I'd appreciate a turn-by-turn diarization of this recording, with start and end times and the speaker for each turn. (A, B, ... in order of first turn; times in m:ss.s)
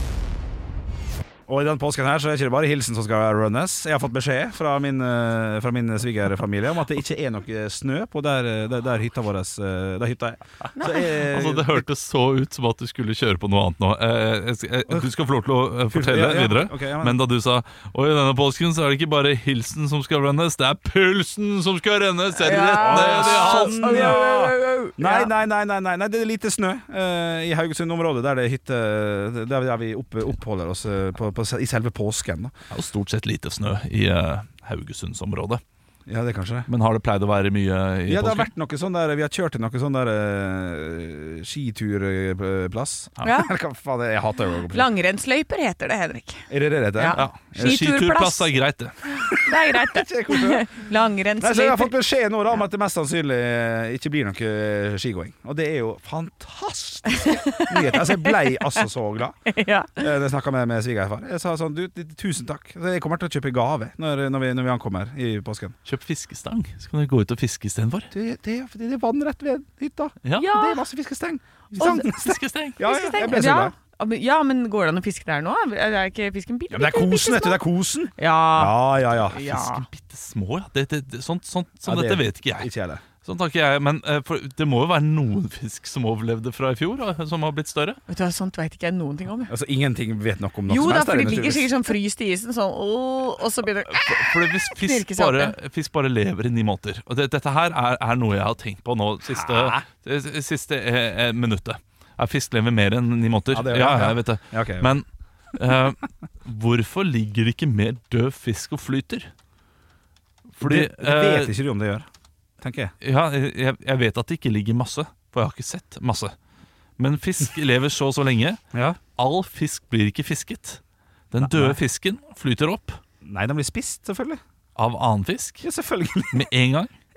0:01.5-0:11.8 A
0:10.8-0:11.1 B
0:11.1-0:24.2 C
0:15.9-0:17.2 A
0:22.4-0:25.3 B
0:22.7-0:32.5 A
0:32.7-0:35.6 C
0:36.1-0:36.7 A
0:36.7-0:38.5 C
0:38.1-0:44.9 A
0:43.2-0:43.5 B
0:44.7-0:48.5 B
0:46.5-0:47.8 A
0:47.1-0:48.9 C
0:49.2-0:51.9 B
0:49.5-0:50.7 A
0:51.4-0:59.4 A
0:57.1-0:58.8 B
0:59.4-1:00.0 B
1:00.0-1:05.7 A
1:05.8-1:08.1 C
1:08.1-1:13.7 A
1:10.2-1:10.5 C
1:10.4-1:10.8 B
1:11.7-1:12.8 C
1:11.8-1:12.1 B
1:12.8-1:17.6 B
1:16.7-1:19.4 A
1:18.2-1:19.8 B
1:19.3-1:22.7 C
1:21.8-1:23.0 A
1:23.2-1:28.0 C
1:28.1-1:29.5 B
1:29.5-1:31.7 A
1:30.7-1:35.5 B
1:33.9-1:49.3 C
1:39.3-1:39.8 A
1:43.5-1:44.9 A
1:50.5-1:51.5 C
1:50.6-1:52.0 A
1:52.6-1:52.9 A
1:53.0-1:56.3 C
1:57.0-1:58.6 C
1:58.7-1:59.0 A
1:59.2-2:00.8 C
2:01.3-2:03.0 C
2:01.4-2:01.8 A
2:03.2-2:04.4 A
2:04.8-2:05.6 C
2:05.6-2:06.5 A
2:06.3-2:06.9 C